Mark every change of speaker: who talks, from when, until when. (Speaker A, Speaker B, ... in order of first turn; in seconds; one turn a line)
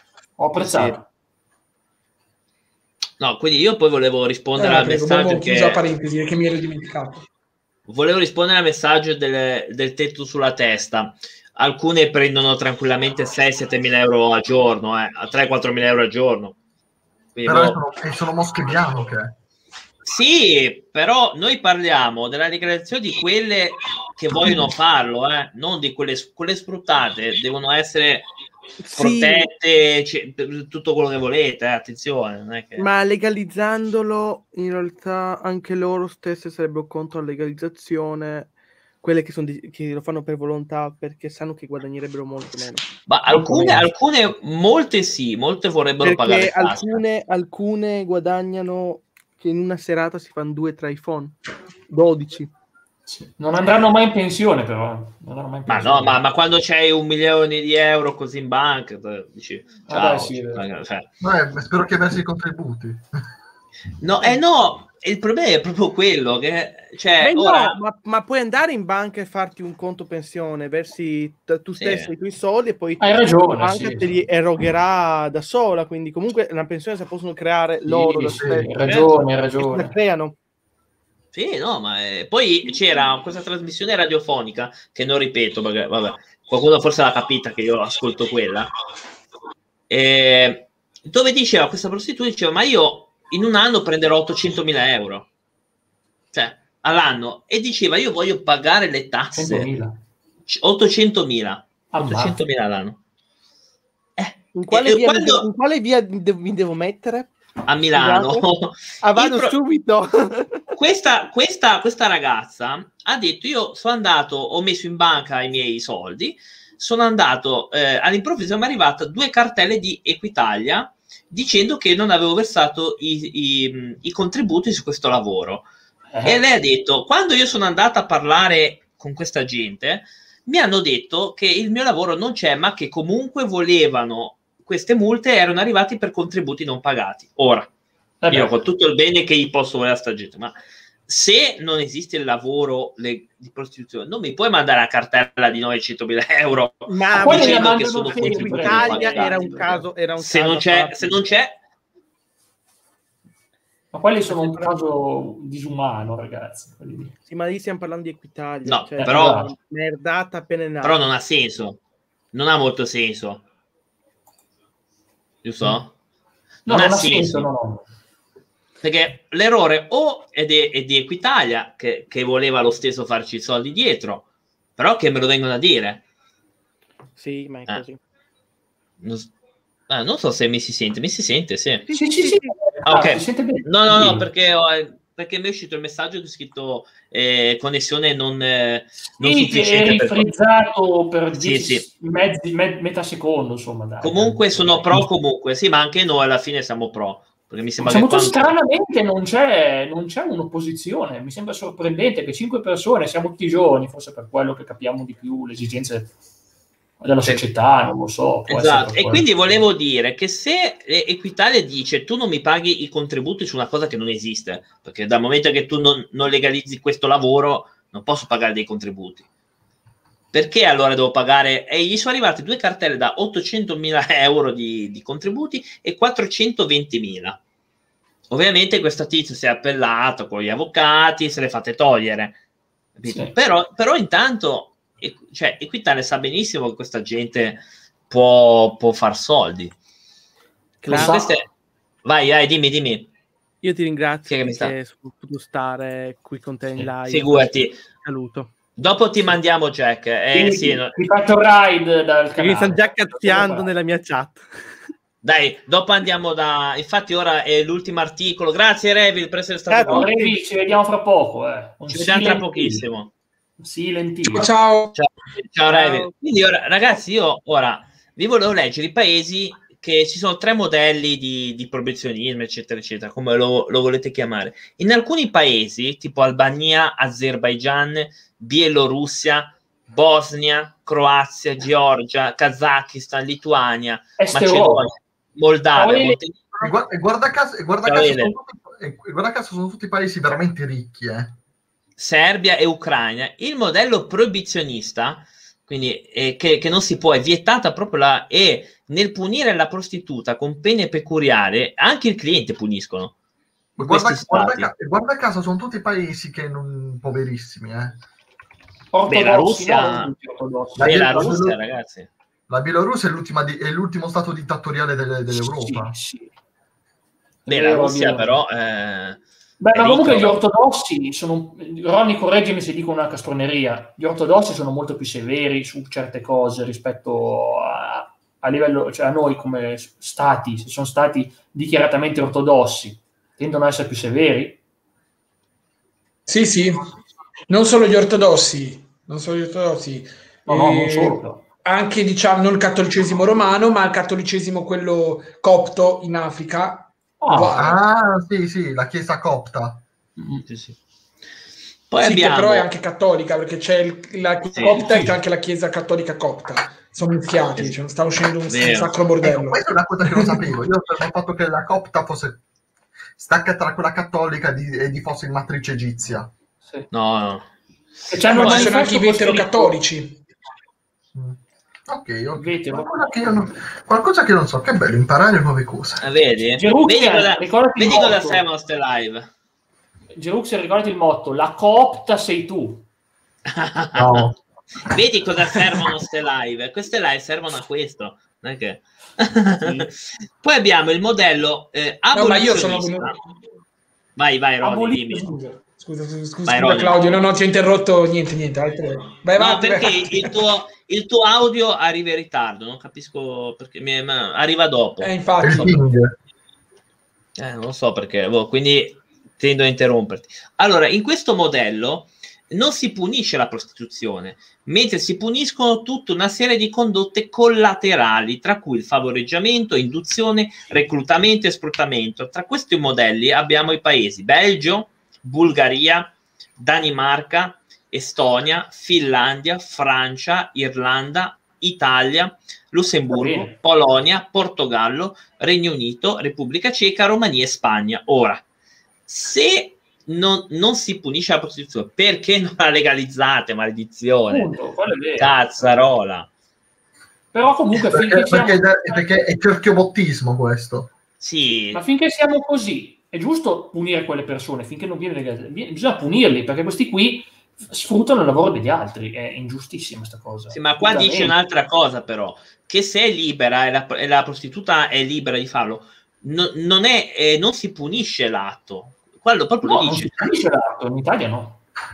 Speaker A: 0.4-1.0
Speaker B: 0.6-1.0
Speaker B: 3.2-5.8
Speaker C: 4.5-7.2
Speaker B: 7.9-16.6
Speaker B: 17.3-17.8
Speaker D: 17.4-19.3
Speaker B: 20.0-28.3
Speaker E: 28.8-29.5
Speaker B: 28.9-32.9
Speaker E: 32.8-42.8
Speaker B: 43.1-47.0
Speaker A: 43.3-43.9
Speaker E: 46.0-51.4
Speaker E: 51.9-52.5
Speaker A: 53.1-56.2
Speaker B: 55.7-61.1
Speaker A: 59.9-60.6
Speaker D: 61.2-63.0
Speaker B: 64.0-67.8
Speaker E: 67.2-80.3
Speaker B: 71.7-72.1
Speaker A: 73.0-74.2
Speaker A: 77.8-79.9
Speaker D: 78.4-78.7
Speaker B: 78.8-79.1
Speaker B: 81.3-88.7
Speaker B: 89.9-95.3
Speaker B: 96.3-99.7
Speaker A: 99.3-100.0
Speaker B: 100.5-103.0
Speaker A: 101.9-102.4
Speaker B: 104.2-105.4
Speaker E: 104.5-107.3
Speaker B: 107.7-109.5
Speaker E: 107.9-108.4
Speaker E: 109.0-110.6
Speaker B: 110.7-125.7
Speaker A: 126.1-126.4
Speaker B: 126.2-137.7
Speaker A: 138.2-138.5
Speaker B: 138.3-151.6
Speaker E: 146.9-151.2
Speaker A: 147.1-149.7
Speaker A: 153.9-157.1
Speaker E: 154.3-154.7
Speaker E: 157.3-161.0
Speaker B: 158.6-159.5
Speaker A: 159.0-159.5
Speaker B: 160.8-161.8
Speaker B: 162.3-163.4
Speaker B: 165.4-165.9
Speaker A: 166.7-167.8
Speaker B: 166.7-167.5
Speaker B: 168.8-174.2
Speaker B: 174.8-176.0
Speaker E: 177.2-178.0
Speaker B: 179.0-179.3
Speaker B: 179.9-181.8
Speaker E: 181.9-182.5
Speaker A: 181.9-184.2
Speaker B: 182.8-190.3
Speaker A: 189.2-195.1
Speaker B: 191.3-191.8
Speaker B: 194.0-198.6
Speaker A: 197.8-206.1
Speaker A: 207.0-209.6
Speaker B: 208.5-219.2
Speaker B: 220.3-227.4
Speaker B: 228.3-232.4
Speaker B: 232.9-239.7
Speaker A: 233.1-233.3
Speaker E: 240.8-241.3
Speaker A: 240.9-241.3
Speaker B: 240.9-241.5
Speaker B: 242.0-243.1
Speaker E: 243.6-247.5
Speaker B: 244.3-244.7
Speaker B: 246.8-247.8
Speaker E: 248.0-248.5
Speaker B: 248.8-250.9
Speaker A: 250.3-253.7
Speaker E: 252.4-254.5
Speaker B: 255.2-260.1
Speaker E: 259.7-260.4
Speaker A: 259.9-262.9
Speaker B: 261.9-263.1
Speaker A: 263.6-264.5
Speaker C: 264.2-264.9
Speaker B: 264.9-286.7
Speaker E: 265.7-266.1
Speaker A: 284.2-284.9
Speaker A: 285.7-286.2
Speaker D: 286.6-291.4
Speaker B: 287.8-288.3
Speaker B: 292.0-303.1
Speaker D: 303.8-308.0
Speaker B: 303.8-304.7
Speaker A: 308.9-311.4
Speaker B: 309.1-310.1
Speaker D: 310.8-311.6
Speaker B: 310.8-312.1
Speaker D: 312.5-316.0
Speaker A: 315.3-316.3
Speaker A: 317.4-318.3
Speaker B: 317.5-319.2
Speaker A: 319.6-334.6
Speaker B: 319.7-320.4
Speaker C: 336.3-336.8
Speaker C: 337.5-347.8
Speaker A: 340.5-341.4
Speaker A: 347.2-347.6
Speaker D: 347.5-349.8
Speaker A: 350.2-350.4
Speaker B: 350.4-350.8
Speaker B: 351.9-352.7
Speaker C: 352.0-360.4
Speaker B: 354.5-354.8
Speaker A: 354.6-355.2
Speaker B: 358.5-358.9
Speaker D: 359.2-362.4
Speaker D: 363.2-366.3
Speaker A: 366.6-366.9
Speaker B: 366.9-368.7
Speaker A: 368.1-369.7
Speaker C: 368.3-370.2
Speaker D: 371.1-376.0
Speaker A: 372.3-373.2
Speaker B: 376.0-379.3
Speaker A: 376.6-378.4
Speaker A: 380.1-382.9
Speaker B: 383.5-384.4
Speaker D: 383.9-384.3
Speaker B: 384.9-393.2
Speaker A: 389.6-389.9
Speaker C: 392.1-393.1
Speaker B: 394.1-395.3
Speaker A: 394.6-395.5
Speaker C: 395.4-400.4
Speaker B: 396.4-397.1
Speaker B: 399.3-405.7
Speaker C: 405.0-405.8
Speaker D: 405.4-406.1
Speaker B: 407.4-438.4
Speaker A: 433.1-433.5
Speaker B: 439.1-444.5
Speaker A: 444.3-445.8
Speaker B: 445.1-446.3
Speaker A: 447.3-449.0
Speaker D: 447.7-450.9
Speaker B: 451.2-451.8
Speaker A: 451.7-461.4
Speaker B: 460.5-470.1
Speaker A: 469.6-471.6